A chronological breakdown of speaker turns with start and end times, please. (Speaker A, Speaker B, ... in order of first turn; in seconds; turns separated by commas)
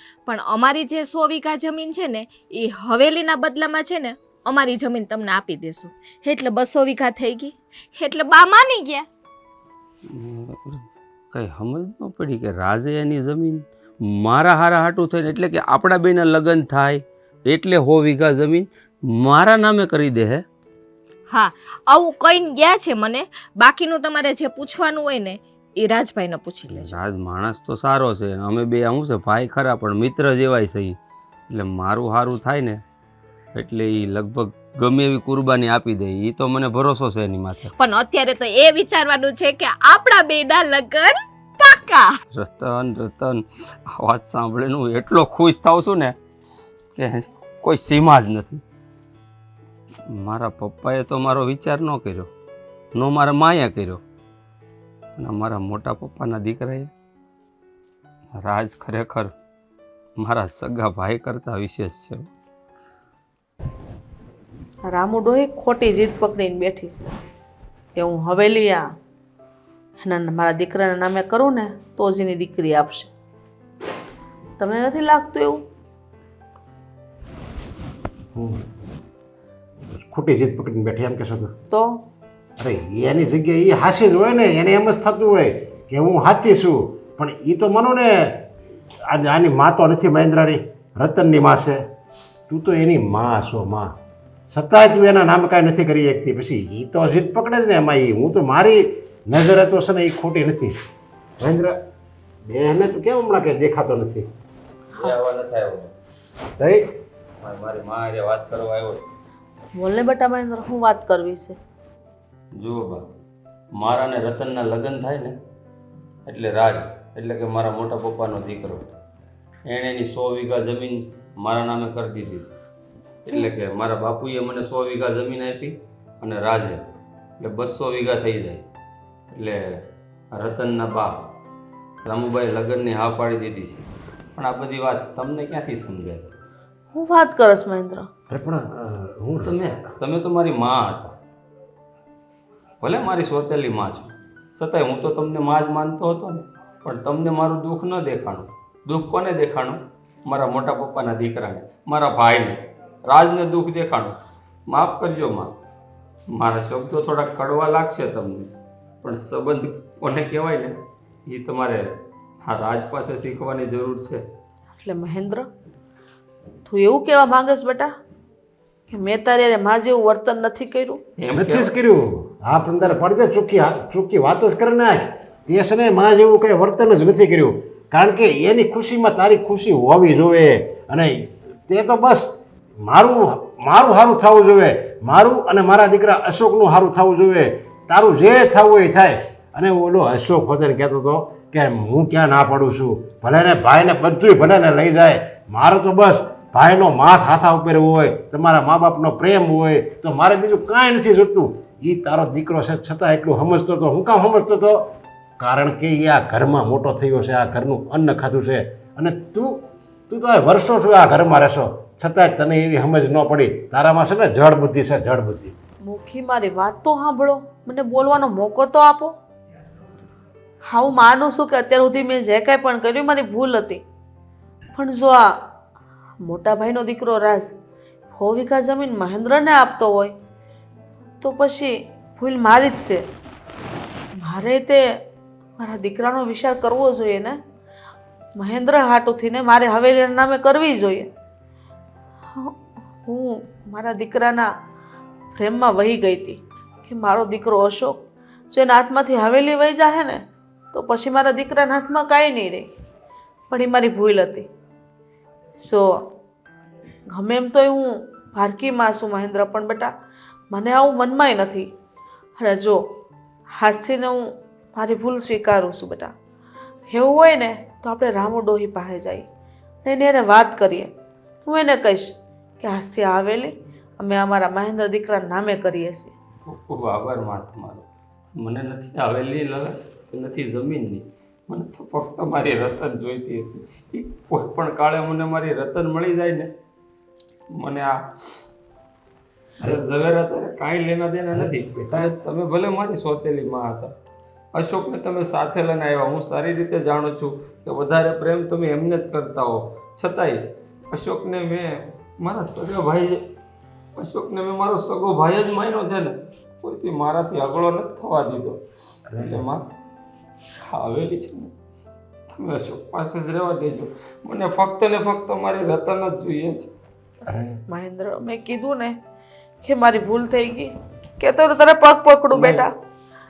Speaker A: 0.2-9.1, Speaker B: 10.1-20.4, Speaker A: 21.3-26.9, Speaker B: 26.7-31.0, Speaker B: 31.5-32.8, Speaker B: 33.5-37.7, Speaker A: 37.8-42.1, Speaker B: 42.3-46.1, Speaker B: 47.0-48.6, Speaker B: 50.1-52.3, Speaker B: 52.9-54.0, Speaker B: 55.2-56.9, Speaker B: 58.3-59.3, Speaker B: 60.2-62.3, Speaker C: 64.8-67.1, Speaker C: 68.0-68.8, Speaker C: 70.0-73.1, Speaker C: 74.6-75.6, Speaker D: 78.3-78.6, Speaker D: 80.0-81.5, Speaker C: 81.7-82.0, Speaker D: 82.6-88.4, Speaker D: 89.1-91.8, Speaker D: 92.5-93.9, Speaker D: 94.5-100.7, Speaker D: 101.4-101.7, Speaker D: 102.5-104.2, Speaker B: 105.0-105.9, Speaker B: 107.4-109.0, Speaker C: 109.7-111.6, Speaker B: 112.5-113.0, Speaker B: 113.8-115.3, Speaker B: 116.2-118.8, Speaker B: 119.7-122.5, Speaker B: 123.2-126.9, Speaker B: 127.4-128.6, Speaker B: 129.3-131.3, Speaker B: 132.0-136.3, Speaker C: 136.9-138.1, Speaker D: 138.3-139.5, Speaker B: 139.4-141.1, Speaker B: 142.8-155.5, Speaker B: 156.3-158.5, Speaker B: 159.0-160.8, Speaker B: 161.3-164.2, Speaker C: 164.8-165.5, Speaker C: 166.7-167.9, Speaker C: 168.9-171.0, Speaker B: 171.2-171.7, Speaker D: 171.3-182.3, Speaker D: 182.8-215.5, Speaker C: 215.8-219.2, Speaker C: 220.7-223.8, Speaker C: 224.7-225.3, Speaker C: 226.2-227.5, Speaker C: 228.1-230.1, Speaker C: 231.2-233.0, Speaker C: 234.2-234.8, Speaker C: 235.6-237.4, Speaker C: 238.4-241.1, Speaker C: 242.3-244.5, Speaker C: 245.3-252.7, Speaker C: 253.5-254.5, Speaker C: 255.6-256.1, Speaker C: 257.1-259.9, Speaker C: 260.5-261.7, Speaker C: 262.4-262.8, Speaker C: 263.6-266.1, Speaker C: 266.9-269.2, Speaker C: 269.8-270.9, Speaker C: 271.4-276.1, Speaker B: 276.4-286.5, Speaker B: 287.6-288.3, Speaker B: 289.6-293.9, Speaker D: 291.3-292.1, Speaker B: 294.5-303.2, Speaker B: 303.9-308.6, Speaker D: 309.1-309.4, Speaker B: 309.2-309.6, Speaker B: 310.6-311.5, Speaker B: 312.3-316.7, Speaker D: 317.3-317.6, Speaker C: 317.7-318.9, Speaker C: 319.6-322.7, Speaker B: 322.3-322.7